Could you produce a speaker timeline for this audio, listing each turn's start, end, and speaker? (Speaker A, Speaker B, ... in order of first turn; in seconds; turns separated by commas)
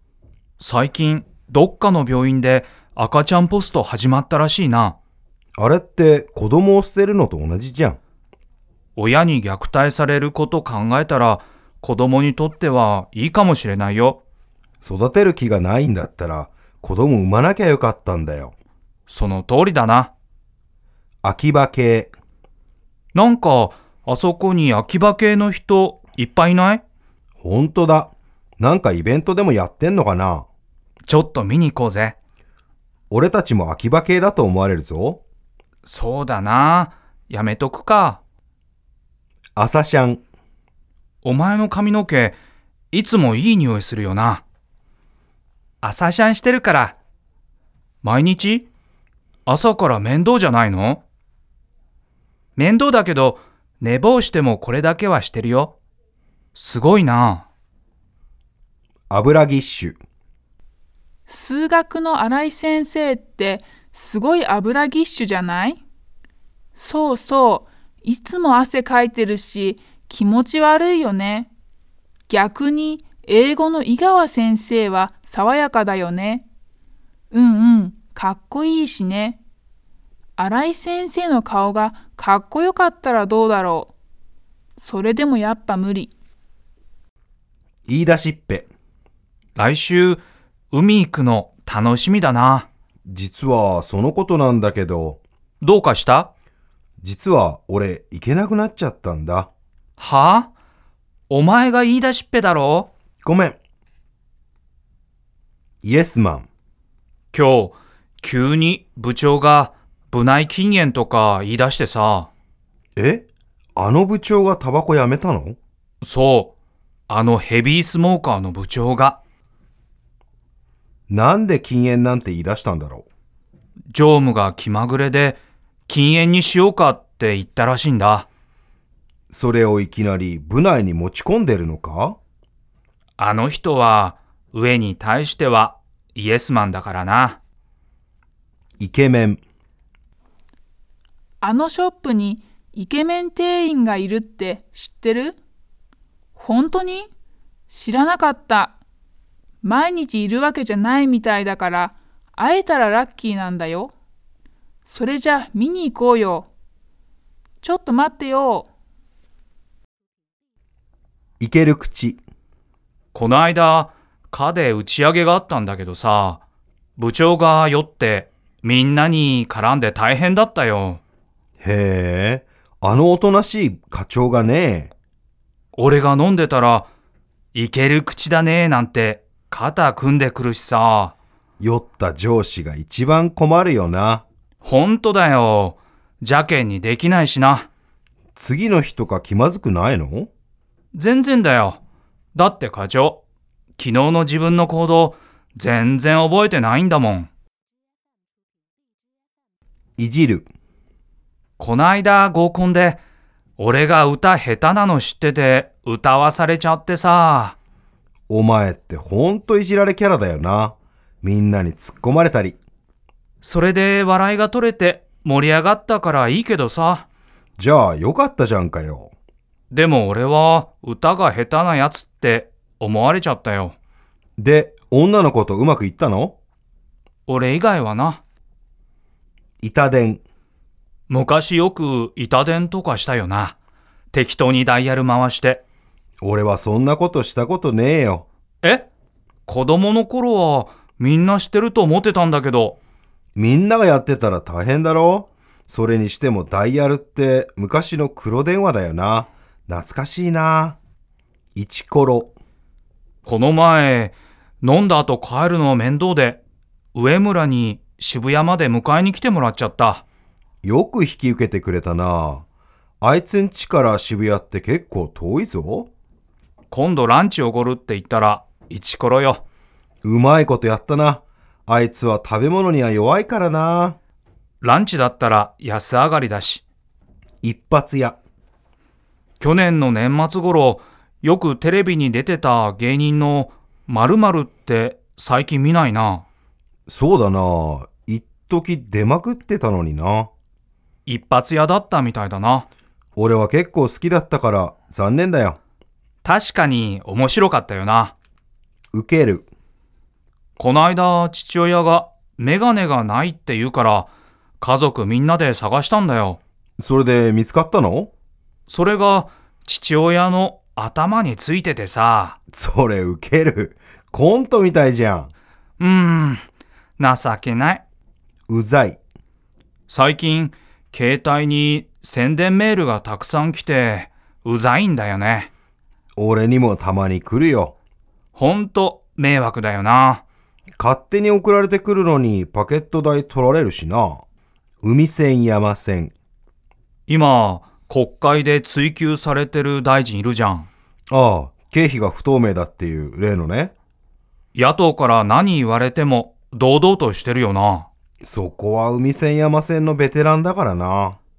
Speaker A: 0.6-5.0, Speaker B: 5.6-8.0, Speaker A: 9.0-14.2, Speaker B: 14.8-18.5, Speaker A: 19.1-20.1, Speaker B: 21.2-22.1, Speaker A: 23.1-26.8, Speaker B: 27.4-30.5, Speaker A: 31.1-32.2, Speaker B: 33.1-35.2, Speaker A: 35.9-38.2, Speaker B: 39.5-40.2, Speaker A: 41.2-42.4, Speaker A: 42.9-44.4, Speaker A: 45.8-47.0, Speaker A: 48.0-48.7, Speaker A: 49.5-51.0, Speaker A: 52.5-55.8, Speaker A: 56.5-57.5, Speaker B: 59.1-60.0, Speaker C: 61.3-65.8, Speaker C: 66.8-71.5, Speaker C: 72.3-76.4, Speaker C: 77.3-79.4, Speaker C: 80.4-83.9, Speaker C: 84.8-86.1, Speaker B: 87.8-88.7, Speaker A: 89.5-92.7, Speaker B: 93.0-95.2, Speaker A: 95.6-96.3, Speaker B: 97.0-99.5, Speaker A: 100.0-100.5, Speaker A: 101.3-102.9, Speaker B: 103.2-103.6, Speaker B: 105.8-106.5, Speaker A: 107.3-112.3, Speaker B: 113.0-115.6, Speaker A: 116.0-116.5, Speaker A: 117.1-119.2, Speaker B: 121.1-123.0, Speaker A: 123.9-128.3, Speaker B: 129.3-132.2, Speaker A: 133.2-137.4, Speaker B: 138.8-139.4, Speaker C: 141.4-145.4, Speaker C: 146.4-147.1, Speaker C: 147.7-148.8, Speaker C: 149.6-153.9, Speaker C: 154.9-156.5, Speaker C: 157.6-158.7, Speaker B: 161.4-162.2, Speaker A: 163.1-166.4, Speaker A: 167.0-171.0, Speaker B: 171.6-174.9, Speaker A: 175.8-176.9, Speaker A: 177.5-181.2, Speaker B: 181.6-184.2, Speaker A: 184.6-187.7, Speaker B: 188.3-190.3, Speaker A: 190.9-191.8, Speaker A: 192.3-193.2, Speaker A: 193.8-197.3, Speaker B: 200.0-200.5, Speaker A: 201.6-203.0, Speaker A: 203.6-207.6, Speaker B: 208.3-212.6, Speaker A: 213.4-217.1, Speaker B: 217.6-219.1, Speaker A: 219.7-223.8, Speaker B: 224.4-226.4, Speaker A: 227.3-228.2, Speaker B: 229.6-230.2, Speaker A: 231.1-233.6, Speaker A: 234.1-235.6, Speaker B: 236.2-238.3, Speaker A: 238.6-238.9, Speaker A: 239.5-242.8, Speaker B: 243.3-250.8, Speaker B: 251.6-252.3, Speaker A: 253.2-256.4, Speaker A: 256.9-260.0, Speaker B: 260.6-262.4, Speaker B: 263.0-265.9, Speaker A: 266.7-269.4, Speaker B: 270.0-274.0, Speaker A: 274.6-276.6, Speaker B: 277.4-278.1, Speaker A: 279.4-286.2, Speaker B: 286.9-290.3, Speaker A: 291.1-292.7, Speaker B: 293.1-295.6, Speaker A: 296.2-298.1, Speaker B: 298.9-299.5, Speaker A: 300.6-304.1, Speaker A: 304.6-306.4, Speaker B: 306.8-308.1, Speaker A: 308.7-312.4, Speaker B: 312.5-315.3, Speaker A: 315.8-316.4, Speaker A: 317.0-317.8, Speaker B: 318.5-319.0, Speaker A: 319.9-325.5, Speaker B: 326.1-327.8, Speaker A: 328.3-330.2, Speaker B: 330.8-334.2, Speaker B: 334.8-336.1, Speaker A: 337.1-340.7, Speaker B: 341.1-343.7, Speaker A: 344.5-347.9, Speaker B: 348.2-351.2